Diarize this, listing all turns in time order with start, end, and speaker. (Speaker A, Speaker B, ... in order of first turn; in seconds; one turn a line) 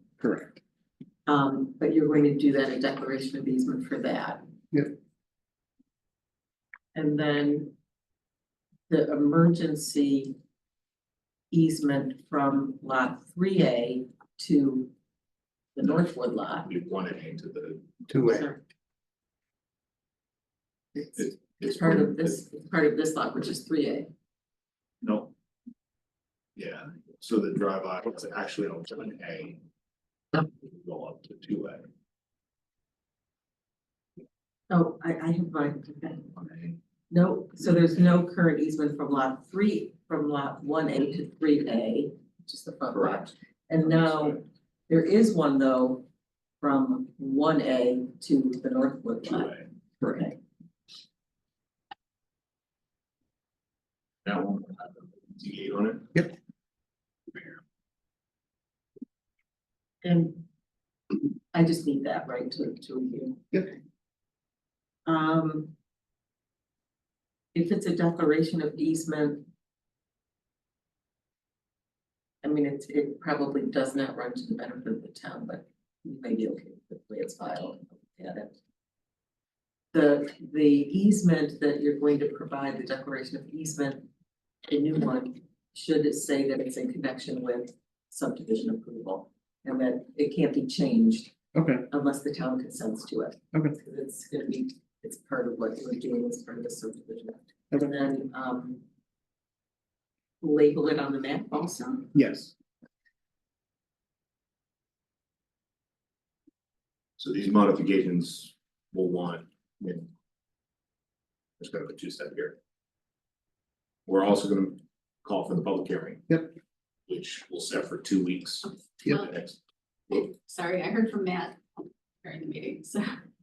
Speaker A: 0.2-0.6
Speaker B: 1.3-4.4
Speaker B: 6.9-7.7
Speaker B: 8.9-10.3
Speaker B: 11.5-14.9
Speaker B: 15.7-16.7
Speaker C: 16.6-18.1
Speaker A: 18.1-18.5
Speaker B: 18.2-18.6
Speaker B: 20.9-24.1
Speaker C: 21.1-22.4
Speaker C: 25.0-25.3
Speaker C: 26.6-29.6
Speaker C: 30.3-31.9
Speaker B: 34.7-36.3
Speaker C: 36.3-36.8
Speaker B: 37.1-46.0
Speaker C: 42.9-44.4
Speaker B: 46.6-49.5
Speaker C: 49.2-49.7
Speaker A: 50.0-50.3
Speaker B: 50.0-50.3
Speaker C: 54.2-56.2
Speaker B: 60.0-60.4
Speaker B: 61.5-63.8
Speaker B: 65.0-65.7
Speaker B: 67.5-69.5
Speaker B: 72.4-78.5
Speaker B: 79.9-84.1
Speaker B: 84.7-91.3
Speaker A: 91.5-91.9
Speaker B: 91.9-98.8
Speaker B: 100.4-102.1
Speaker A: 102.1-102.5
Speaker C: 107.2-110.1
Speaker C: 111.6-112.5
Speaker C: 114.0-116.3
Speaker C: 117.1-119.5
Speaker D: 118.7-119.3
Speaker D: 120.1-123.1